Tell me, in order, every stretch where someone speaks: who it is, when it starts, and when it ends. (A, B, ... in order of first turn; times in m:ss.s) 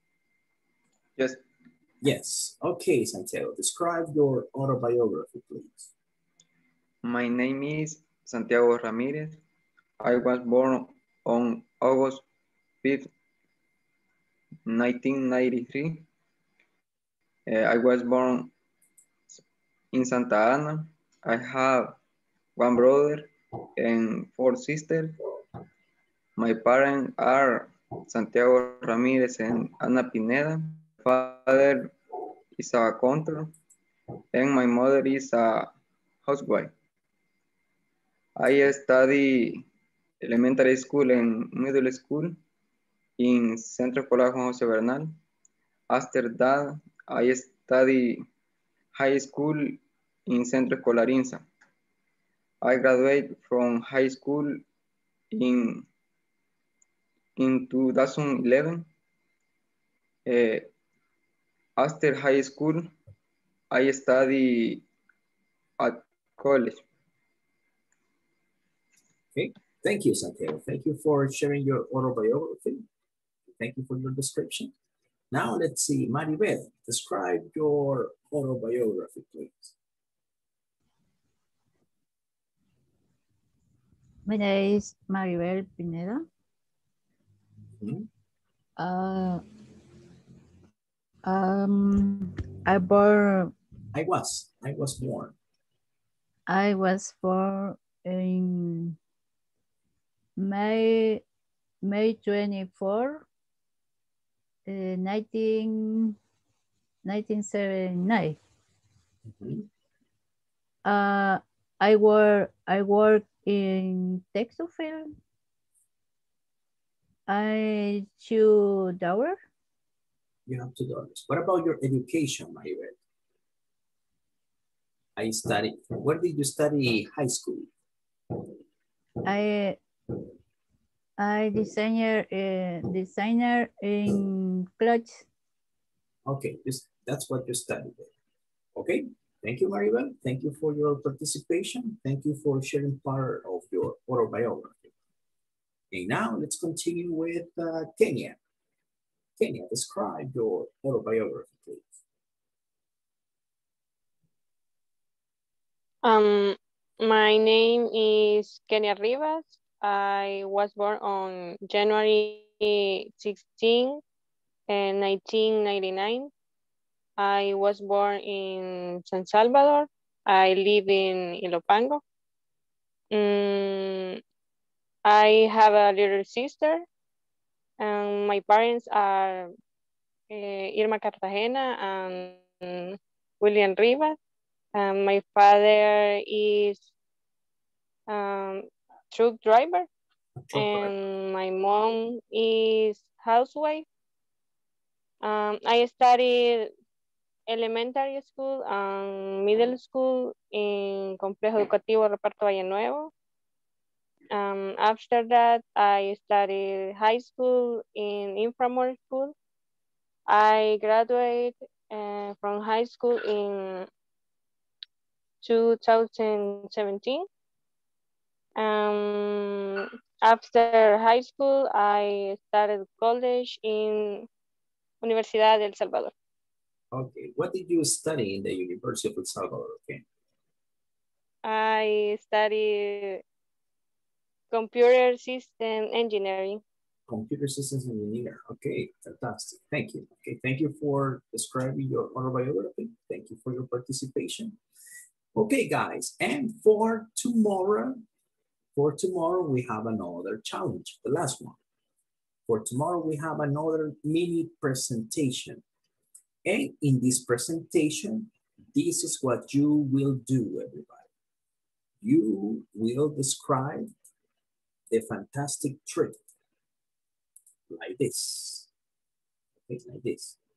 0:01.2-0:01.4 A
0:02.0-0:05.9 B
0:07.0-0:09.4 A
0:10.0-0:12.2 A
0:12.8-0:13.1 A
0:14.7-0:16.1 A
0:17.5-0:18.5 A
0:19.9-0:22.0 A
0:22.6-0:25.2 A
0:26.4-0:31.9 A
0:32.6-0:33.5 A
0:34.3-0:35.7 A
0:36.2-0:36.7 A
0:38.4-0:39.7 A
0:40.2-0:42.4 A
0:43.2-0:45.1 A
0:45.9-0:48.2 A
0:48.9-0:51.4 A
0:52.6-0:54.6 A
0:55.3-0:55.9 A
0:57.4-0:58.9 A
1:00.3-1:00.7 A
1:01.8-1:02.9 A
1:03.7-1:04.8 A
1:05.8-1:06.8 A
1:09.3-1:12.9 B
1:13.6-1:14.7 B
1:15.3-1:19.8 B
1:24.3-1:26.3 C
1:27.8-1:28.1 B
1:28.8-1:29.4 C
1:31.3-1:33.5 C
1:33.9-1:35.4 B
1:36.5-1:39.0 C
1:40.4-1:41.2 C
1:41.8-1:43.3 C
1:44.7-1:46.2 C
1:47.0-1:48.4 C
1:49.3-1:49.7 B
1:50.8-1:55.1 C
1:57.3-1:59.4 C
2:00.5-2:03.0 B
2:05.2-2:07.7 B
2:09.2-2:09.8 C
2:11.2-2:15.2 C
2:16.2-2:18.1 B
2:18.7-2:24.9 B
2:25.9-2:28.4 B
2:29.4-2:31.9 B
2:36.0-2:44.0 D
2:44.7-2:46.3 D
2:47.2-2:52.0 D
2:53.1-2:54.2 D
2:55.1-2:56.8 D
2:57.8-2:59.5 D
3:00.3-3:04.2 D
3:04.8-3:06.9 D
3:08.1-3:09.9 D
3:10.4-3:10.9 B
3:10.6-3:13.8 D
3:15.2-3:16.7 D
3:17.5-3:23.1 D
3:24.3-3:29.4 D
3:30.3-3:33.9 D
3:35.4-3:37.3 D
3:38.6-3:44.3 D
3:45.0-3:46.1 D
3:46.9-3:50.0 B
3:51.4-3:53.2 D
3:54.5-3:56.6 D
3:57.1-4:04.6 B
4:05.3-4:08.0 B
4:08.8-4:11.6 B
4:12.5-4:15.6 B
4:16.4-4:21.1 B
4:22.0-4:23.9 B
4:24.9-4:26.2 B
4:27.7-4:28.7 B
4:29.7-4:30.4 B